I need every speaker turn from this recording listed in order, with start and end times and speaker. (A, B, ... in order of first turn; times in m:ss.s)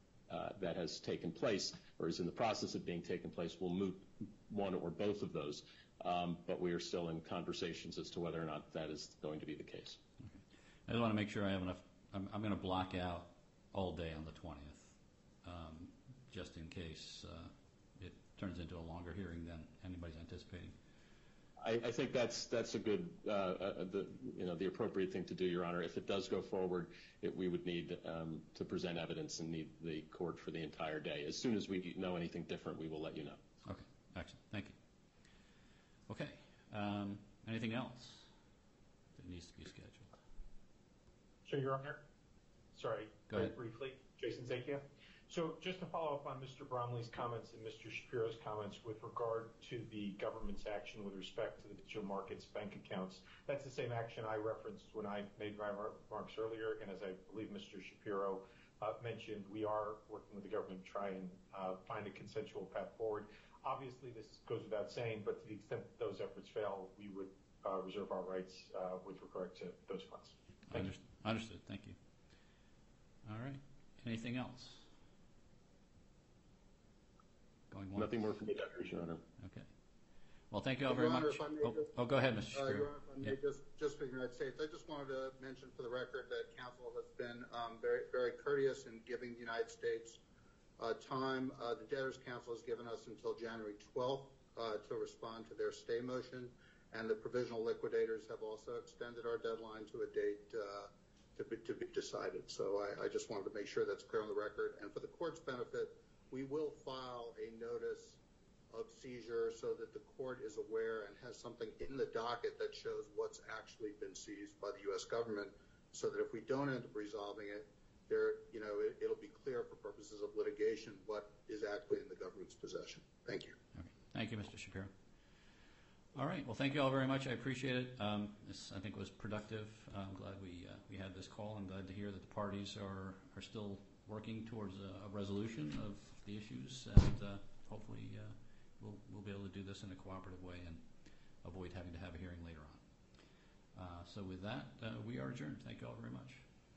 0:00.3-0:10.0 A
0:10.2-0:20.7 B
0:21.6-0:33.4 A
0:33.6-0:34.8 B
0:36.1-0:38.3 B
0:39.1-0:40.1 B
0:41.4-0:42.0 C
0:42.7-1:10.9 C
1:10.7-1:12.0 B
1:13.2-1:14.8 B
1:17.7-1:18.1 B
1:17.9-1:19.2 A
1:19.4-1:19.7 B
1:20.5-1:23.3 B
1:20.8-1:21.9 D
1:22.5-1:30.2 D
1:30.8-1:48.2 D
1:48.7-2:03.5 D
2:03.8-2:04.9 B
2:06.1-2:20.9 B
2:21.4-2:22.8 B
2:23.7-2:26.4 B